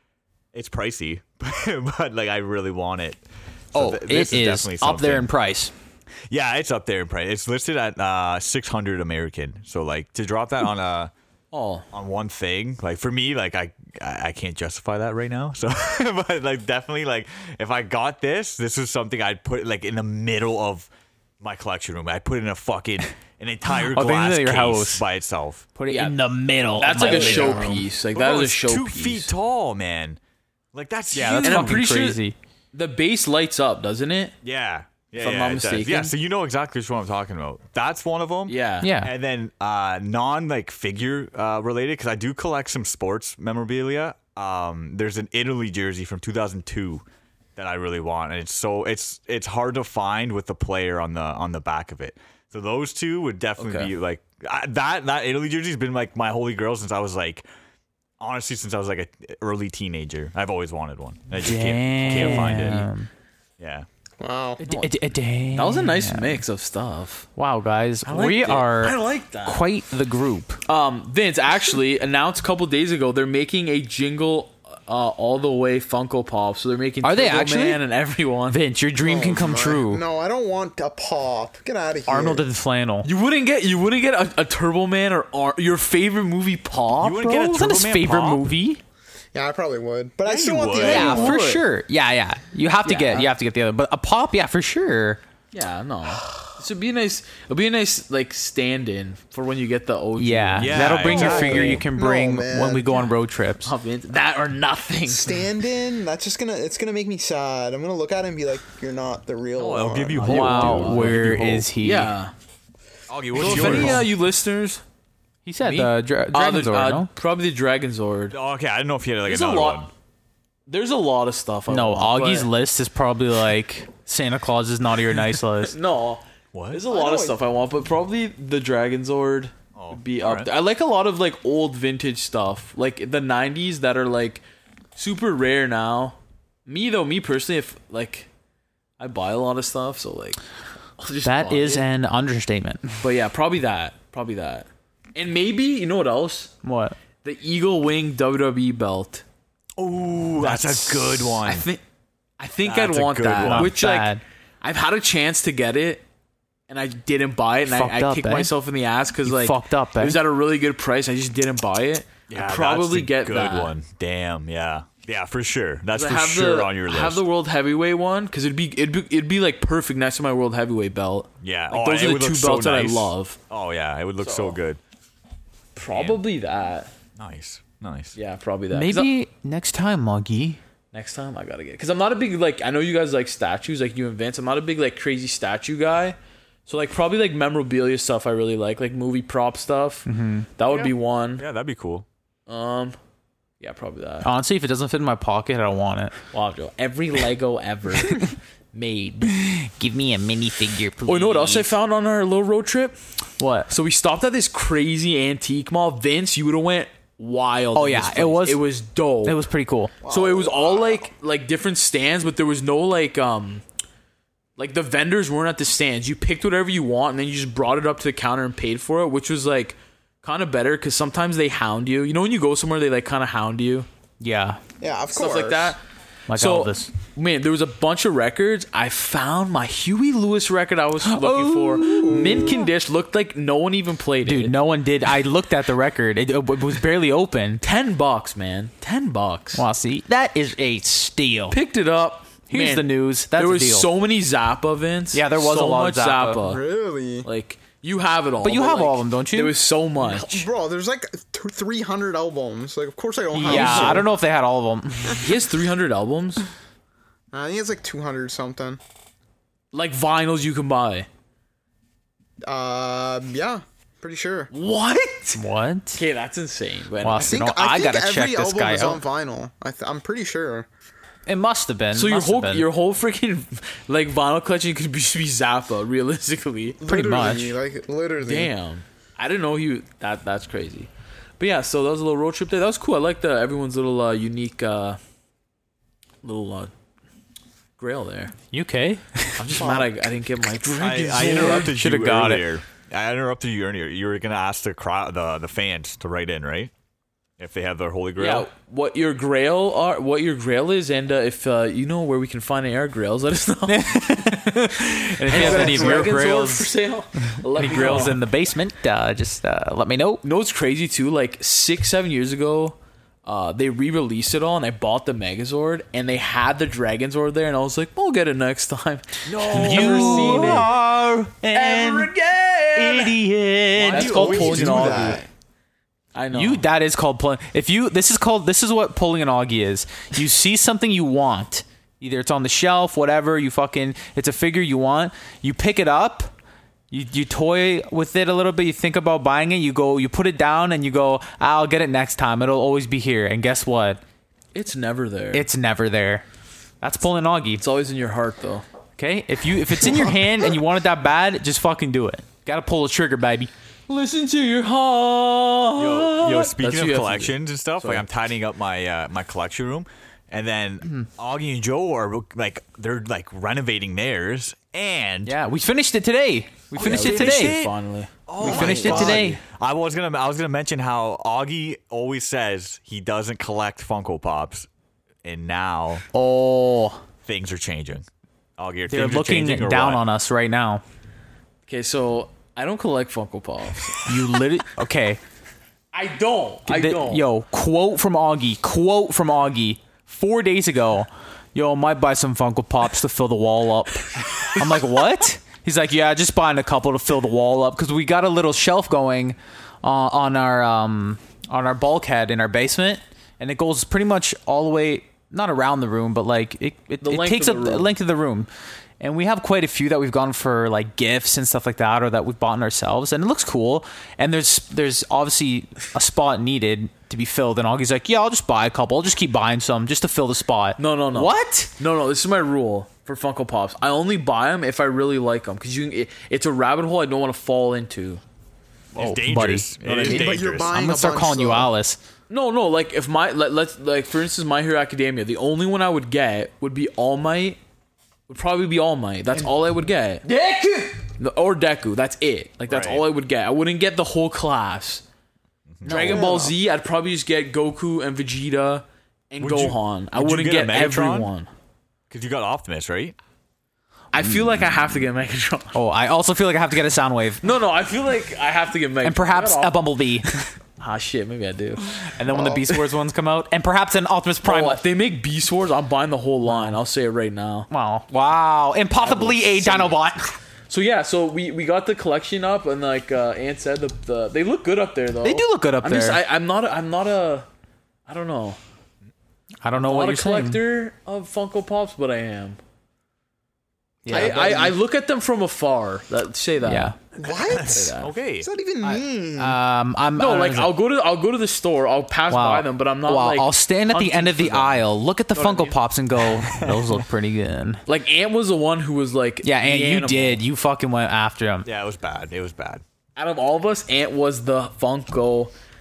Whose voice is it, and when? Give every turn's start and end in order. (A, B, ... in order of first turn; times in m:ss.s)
0:00.5-0:05.3 A
0:03.7-0:05.7 B
0:06.3-0:11.1 A
0:11.5-0:11.9 C
0:11.9-0:20.9 A
0:21.4-0:25.6 A
0:23.8-0:25.0 B
0:25.8-0:27.8 B
0:25.9-0:26.2 C
0:26.8-0:29.3 C
0:27.0-0:27.8 D
0:28.1-0:30.2 A
0:30.7-0:31.8 A
0:31.1-0:32.4 B
0:31.4-0:32.2 C
0:32.7-0:34.3 C
0:34.4-0:47.0 A
0:35.2-0:36.1 C
0:38.5-0:38.9 C
0:38.8-0:39.1 B
0:47.6-0:57.4 A
0:53.6-0:53.9 C
0:58.2-1:02.9 A
1:01.4-1:03.1 B
1:02.1-1:02.8 C
1:03.6-1:03.8 A
1:04.2-1:04.6 D
1:04.6-1:06.4 B
1:04.6-1:04.9 C
1:05.5-1:07.3 C
1:07.4-1:10.6 B
1:08.0-1:09.6 C
1:10.7-1:18.6 C
1:17.0-1:17.8 B
1:18.5-1:20.0 B
1:19.0-1:22.4 D
1:22.1-1:23.1 B
1:23.0-1:27.4 C
1:27.0-1:28.4 A
1:27.2-1:28.8 B
1:29.3-1:31.4 D
1:30.2-1:31.3 A
1:30.7-1:31.6 C
1:30.8-1:35.2 B
1:32.8-1:33.3 C
1:35.5-1:41.8 C
1:40.2-1:43.7 B
1:40.6-1:41.8 A
1:41.1-1:43.0 D
1:43.6-1:45.4 C
1:45.1-1:50.3 D
1:49.6-1:51.6 A
1:50.2-1:52.3 C
1:50.2-1:52.1 B
1:53.1-1:54.1 A
1:53.3-1:54.8 C
1:53.4-1:54.0 B
1:55.4-1:57.1 B
1:55.6-1:58.3 C
1:58.3-1:59.9 A
1:59.2-1:59.9 C
2:00.7-2:02.5 C
2:01.7-2:05.7 B
2:05.6-2:14.4 C
2:06.5-2:06.8 A
2:06.9-2:07.4 D
2:09.8-2:10.5 A
2:15.0-2:18.3 C
2:19.0-2:20.4 C
2:21.0-2:21.8 C
2:21.2-2:23.0 B
2:23.0-2:26.6 C
2:26.6-2:27.0 B
2:27.2-2:29.2 C
2:29.8-2:31.6 A
2:30.4-2:31.8 C
2:32.4-2:36.0 C
2:32.6-2:33.7 A
2:33.4-2:34.2 B
2:36.7-2:43.7 C
2:37.7-2:38.5 B
2:39.2-2:40.2 B
2:42.3-2:47.2 A
2:45.9-2:53.4 C
2:51.4-2:54.8 A
2:54.2-2:54.6 C
2:55.7-2:56.9 C
2:55.9-2:56.2 A
2:57.2-2:58.2 A
2:58.2-2:59.1 C
2:58.7-3:00.6 B
3:00.9-3:11.4 C
3:10.1-3:10.5 B
3:10.7-3:12.0 A
3:12.5-3:13.0 C
3:13.6-3:14.3 C
3:14.2-3:16.2 B
3:16.3-3:19.3 C
3:19.2-3:21.7 B
3:21.0-3:23.0 C
3:23.4-3:23.7 B
3:23.7-3:29.4 C
3:27.7-3:28.6 B
3:29.2-3:29.9 B
3:30.0-3:31.1 D
3:30.0-3:33.6 C
3:34.6-3:43.9 C
3:44.2-3:44.6 B
3:44.8-3:45.8 D
3:45.1-3:54.5 C
3:46.3-3:46.9 B
3:51.0-3:52.7 B
3:51.8-3:52.5 D
3:54.2-3:57.6 B
3:57.6-3:59.6 C
3:59.5-4:01.6 B
4:01.5-4:06.6 C
4:02.5-4:03.9 B
4:05.1-4:06.4 B
4:06.4-4:07.3 D
4:07.2-4:10.5 C
4:08.4-4:09.6 B
4:10.0-4:14.1 D
4:13.3-4:15.3 B
4:13.4-4:14.1 C
4:15.1-4:16.4 C
4:17.3-4:18.8 D
4:19.7-4:21.1 C
4:22.4-4:24.5 D
4:24.5-4:25.4 C
4:25.4-4:26.0 B
4:25.9-4:27.4 C
4:27.0-4:29.0 B
4:27.2-4:30.7 D
4:31.3-4:32.7 B
4:31.9-4:36.8 C
4:36.8-4:38.5 D
4:36.8-4:37.6 B
4:38.2-4:45.0 C
4:46.2-4:46.7 C
4:47.8-4:48.3 C
4:48.5-4:49.6 B
4:49.4-4:51.8 C
4:49.5-4:49.9 D
4:50.8-4:56.7 A
4:51.4-4:52.4 B
4:57.4-4:58.5 A
4:58.2-5:03.9 C
5:03.7-5:06.7 B
5:05.2-5:08.2 C
5:05.4-5:06.0 D
5:07.6-5:10.2 B
5:10.2-5:20.7 C
5:19.2-5:20.6 A
5:19.5-5:22.1 B
5:21.5-5:23.2 C
5:22.7-5:25.2 B
5:23.7-5:25.3 C
5:23.9-5:25.2 D
5:24.0-5:24.9 A
5:26.1-5:26.6 C
5:26.3-5:36.3 B
5:36.9-5:44.0 B
5:44.5-5:45.4 C
5:45.3-5:46.2 B
5:46.8-5:47.6 B
5:47.6-5:48.6 C
5:49.0-5:53.5 B
5:53.9-5:58.0 C
5:55.8-6:05.3 A
6:05.2-6:07.5 B
6:06.7-6:07.7 A
6:06.7-6:09.4 C
6:08.3-6:14.7 A
6:08.4-6:09.2 D
6:08.4-6:09.4 B
6:15.2-6:16.0 A
6:16.1-6:17.0 B
6:17.2-6:18.0 A
6:18.6-6:20.0 A
6:18.9-6:20.8 B
6:21.7-6:24.1 C
6:24.1-6:25.2 B
6:25.9-6:27.2 C
6:26.7-6:48.5 B
6:47.0-6:47.9 C
6:49.0-7:01.7 B
7:00.8-7:08.2 C
7:08.9-7:10.7 A
7:09.0-7:12.0 B
7:09.8-7:10.2 C
7:09.9-7:11.7 D
7:12.3-7:17.6 C
7:18.3-7:25.0 C
7:22.7-7:23.0 A
7:25.7-7:26.3 A
7:25.8-7:31.5 C
7:25.9-7:26.3 B
7:26.0-7:26.5 D
7:29.4-7:31.3 A
7:32.1-7:33.1 A
7:34.1-7:35.8 C
7:35.7-7:37.4 B
7:37.4-7:39.8 C
7:39.0-7:40.3 B
7:40.8-7:42.9 C
7:42.1-7:44.8 B
7:44.4-7:47.7 C
7:46.5-7:46.8 B
7:47.7-7:50.3 B
7:49.0-7:50.0 C
7:50.7-7:57.4 C
7:55.2-7:56.2 B
7:58.1-7:58.6 C
7:59.6-8:00.6 B
7:59.8-8:02.6 C
8:04.0-8:04.8 B
8:04.0-8:06.9 C
8:04.1-8:04.6 D
8:06.6-8:06.9 B
8:07.1-8:09.6 D
8:07.5-8:08.5 A
8:07.5-8:08.1 C
8:08.8-8:10.7 B
8:10.2-8:15.8 C
8:12.3-8:17.8 B
8:17.8-8:20.4 C
8:19.4-8:21.7 B
8:21.6-8:22.8 A
8:23.2-8:25.5 C